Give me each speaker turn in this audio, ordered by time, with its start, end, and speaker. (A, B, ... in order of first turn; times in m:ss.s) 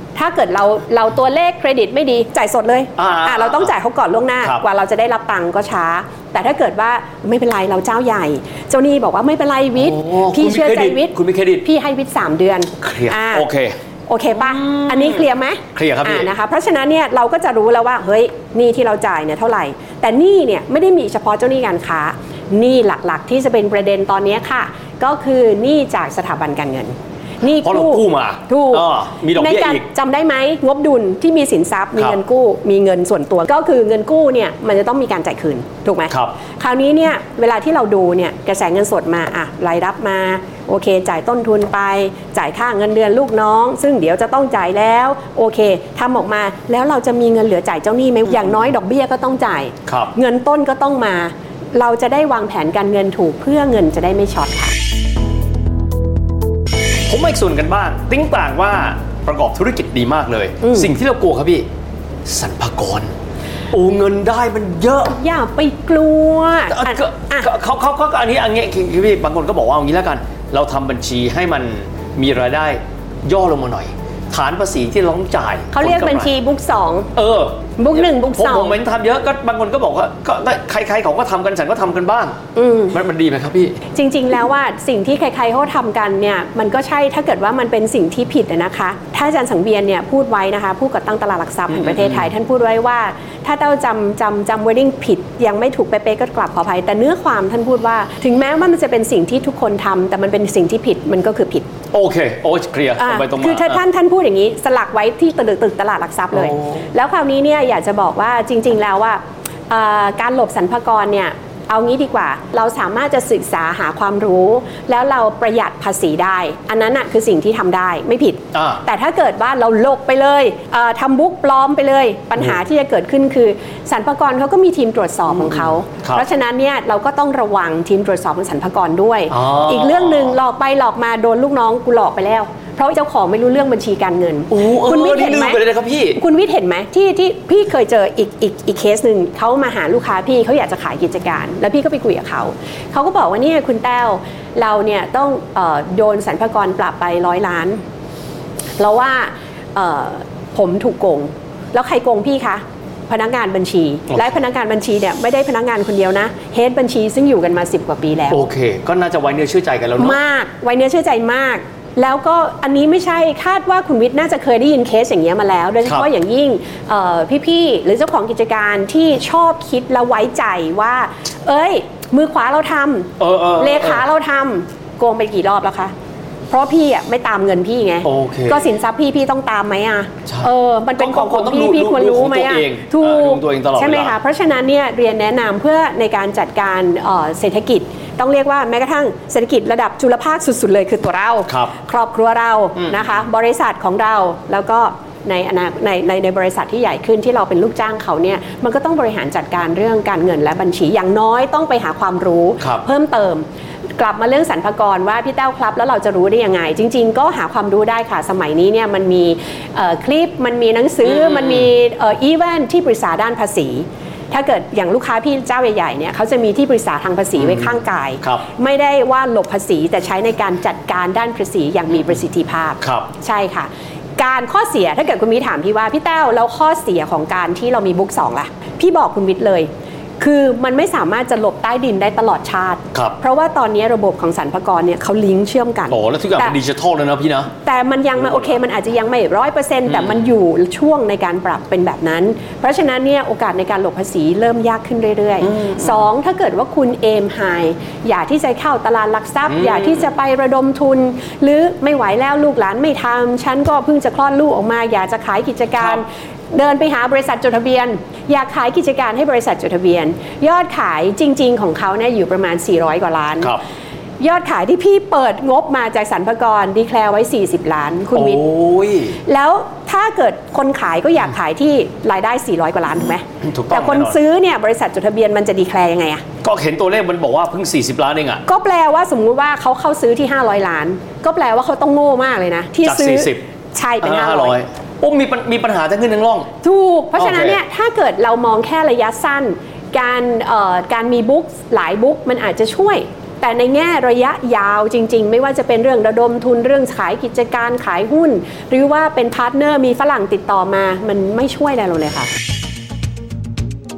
0:00.1-0:13.5 A
0:03.0-0:03.7 B
0:09.8-0:11.6 B
0:12.8-0:13.7 B
0:14.1-0:54.7 A
0:14.3-0:16.3 B
0:27.6-0:29.8 B
0:36.1-0:36.3 B
0:49.9-0:50.1 B
0:57.1-1:01.7 B
1:00.6-1:00.9 A
1:02.2-1:03.1 B
1:03.7-1:05.2 B
1:05.1-1:07.5 A
1:06.7-1:16.3 B
1:15.7-1:17.1 A
1:17.1-1:22.4 B
1:17.8-1:18.8 A
1:22.6-1:22.9 A
1:22.9-1:23.8 B
1:23.9-1:41.7 A
1:31.7-1:32.3 B
1:41.9-1:43.8 B
1:43.0-2:27.8 A
1:46.3-1:46.8 B
1:58.5-1:58.8 B
2:05.4-2:06.2 B
2:09.3-2:10.4 B
2:14.5-2:16.2 B
2:28.8-2:38.5 A
2:38.3-2:40.2 B
2:40.0-2:55.9 A
2:53.2-2:54.0 B
2:56.5-3:23.4 A
2:58.0-2:58.7 B
3:00.3-3:04.2 B
3:11.5-3:11.7 B
3:22.6-3:22.8 B
3:24.0-3:49.7 A
3:31.0-3:31.6 B
3:42.8-3:43.1 B
3:50.2-3:56.6 A
3:55.9-3:57.5 B
3:57.6-4:23.6 A
3:59.9-4:00.2 B
4:05.4-4:06.0 B
4:09.5-4:10.0 B
4:24.2-4:28.4 A
4:28.1-4:29.2 B
4:29.2-4:36.2 A
4:33.4-4:34.2 B
4:36.4-4:38.4 B
4:38.4-4:44.6 A
4:42.8-4:43.4 B
4:44.0-4:46.5 B
4:46.6-5:02.3 A
4:47.2-4:47.6 B